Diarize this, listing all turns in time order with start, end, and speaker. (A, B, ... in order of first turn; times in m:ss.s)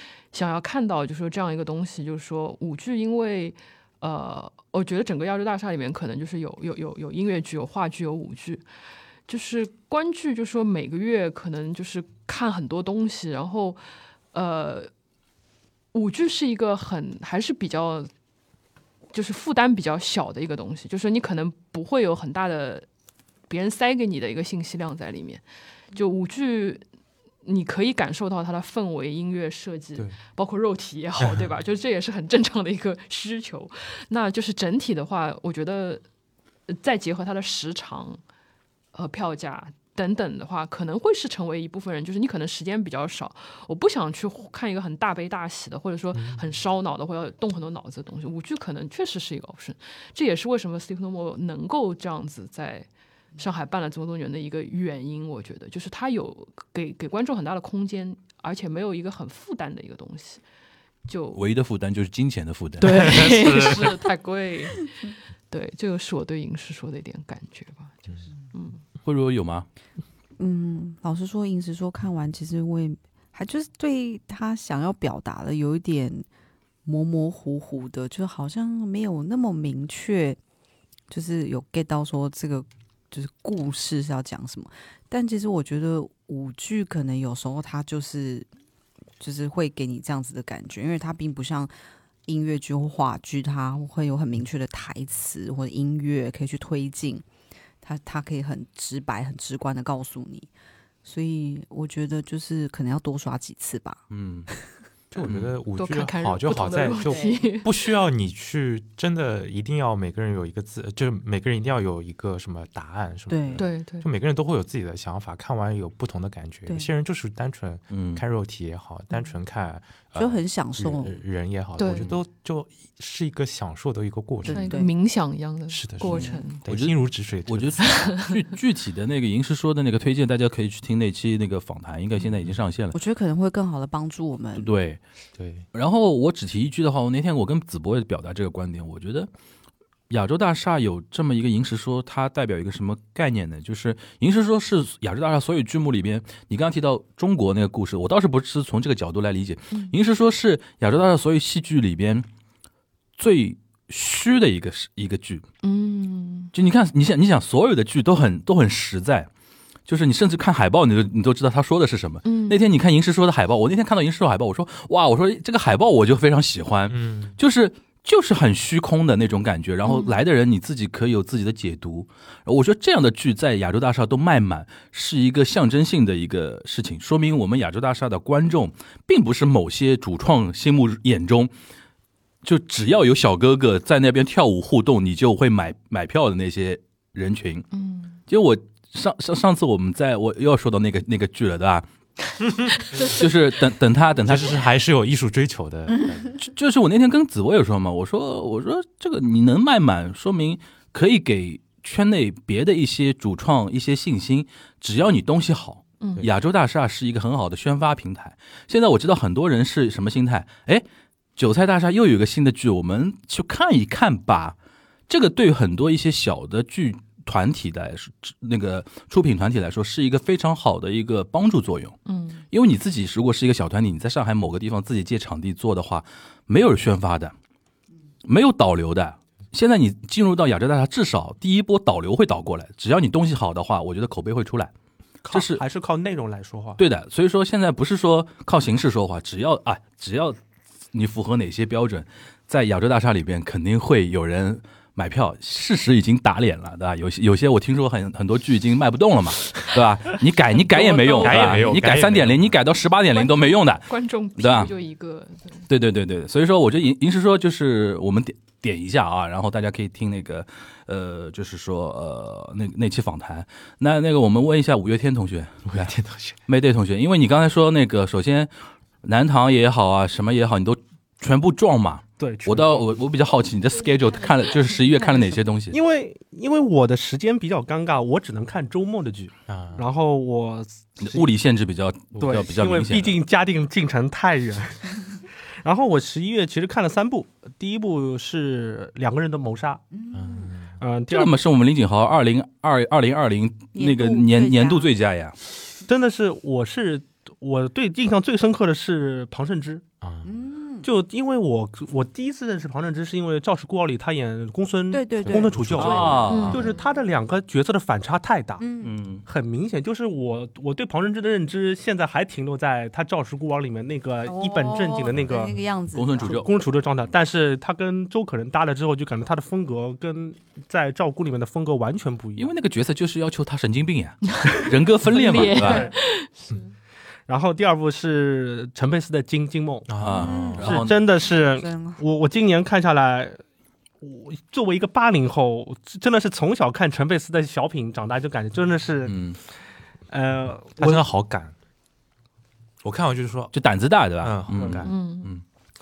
0:00.3-0:08.6 A
0:09.3-0:13.8 A
0:14.3-0:14.9 A
0:15.9-0:18.1 A
0:19.1-0:22.9 A
0:23.5-0:25.4 A
0:25.9-0:26.8 A
0:27.4-0:36.0 A
0:31.2-0:31.5 B
0:36.7-0:38.2 A
0:38.9-1:00.4 A
0:46.1-0:46.5 B
1:01.1-1:01.4 A
1:01.4-1:03.2 C
1:02.8-1:08.8 A
1:02.9-1:03.8 B
1:03.4-1:03.7 D
1:09.0-1:09.7 C
1:10.4-1:16.3 D
1:16.8-1:20.4 D
1:21.1-1:28.5 D
1:29.2-1:31.7 D
1:32.3-1:37.2 D
1:37.8-1:40.5 D
1:41.0-1:44.6 D
1:44.1-1:44.5 C
1:45.1-2:04.9 B
1:45.2-1:45.6 C
1:45.8-1:47.7 A
1:47.0-1:47.4 D
1:53.3-1:53.7 D
1:53.6-1:54.1 A
1:57.9-1:58.2 C
2:00.2-2:01.2 D
2:01.8-2:02.1 A
2:04.4-2:04.9 D
2:04.5-2:06.6 A
2:05.7-2:08.0 B
2:06.0-2:06.4 D
2:06.7-2:13.0 C
2:07.8-2:08.3 A
2:12.9-2:14.7 D
2:14.6-2:15.0 C
2:15.4-2:15.6 B
2:15.7-2:19.3 C
2:20.1-2:32.3 C
2:33.2-2:35.4 C
2:35.6-2:36.5 A
2:36.5-2:39.3 C
2:39.9-3:01.5 C
2:42.2-2:42.6 A
2:46.9-2:47.4 B
2:49.8-2:50.2 A
3:02.4-3:07.7 C
3:07.7-3:08.2 A
3:08.3-3:11.9 C
3:13.0-3:14.6 C
3:14.2-3:16.3 B
3:16.4-3:30.8 C
3:31.4-3:34.6 C
3:35.1-3:42.0 C
3:42.1-3:42.4 A
3:42.5-3:47.3 C
3:48.2-3:54.7 C
3:55.2-3:56.8 E
3:55.3-3:55.6 C
3:56.8-4:00.4 C
4:00.9-4:14.7 C
4:10.7-4:11.6 A
4:11.2-4:12.6 B
4:13.1-4:15.7 A
4:15.7-4:25.9 C
4:25.7-4:26.4 B
4:26.5-4:28.5 C
4:29.0-4:35.8 C
4:32.2-4:32.9 E
4:34.9-4:35.3 D
4:35.7-4:41.3 E
4:39.5-4:39.9 B
4:41.0-4:43.2 C
4:42.2-4:45.1 E
4:45.6-4:49.8 E
4:49.9-4:50.6 D
4:50.1-4:50.7 B
4:50.8-4:51.4 E
4:51.1-4:55.4 C
4:53.8-4:54.9 D
4:55.9-4:59.8 E
5:00.0-5:00.3 B
5:00.2-5:00.9 D
5:00.8-5:08.6 E
5:04.9-5:06.9 D
5:05.2-5:06.6 B
5:05.8-5:06.7 C
5:06.3-5:06.7 A
5:08.6-5:09.0 D
5:08.8-5:09.2 C
5:09.3-5:15.6 E
5:14.3-5:16.4 D
5:15.9-5:16.5 C
5:16.2-5:22.5 E
5:22.4-5:25.9 C
5:24.3-5:26.7 A
5:25.4-5:25.9 E
5:27.3-5:29.9 E
5:29.9-5:30.8 B
5:30.0-5:30.9 C
5:30.2-5:32.0 D
5:30.5-5:33.4 E
5:34.0-5:39.2 E
5:39.0-5:39.4 C
5:40.1-5:41.0 E
5:40.8-5:41.5 B
5:42.8-5:43.5 B
5:43.5-5:45.4 C
5:44.2-5:44.9 B
5:44.5-5:44.9 E
5:44.8-5:45.3 A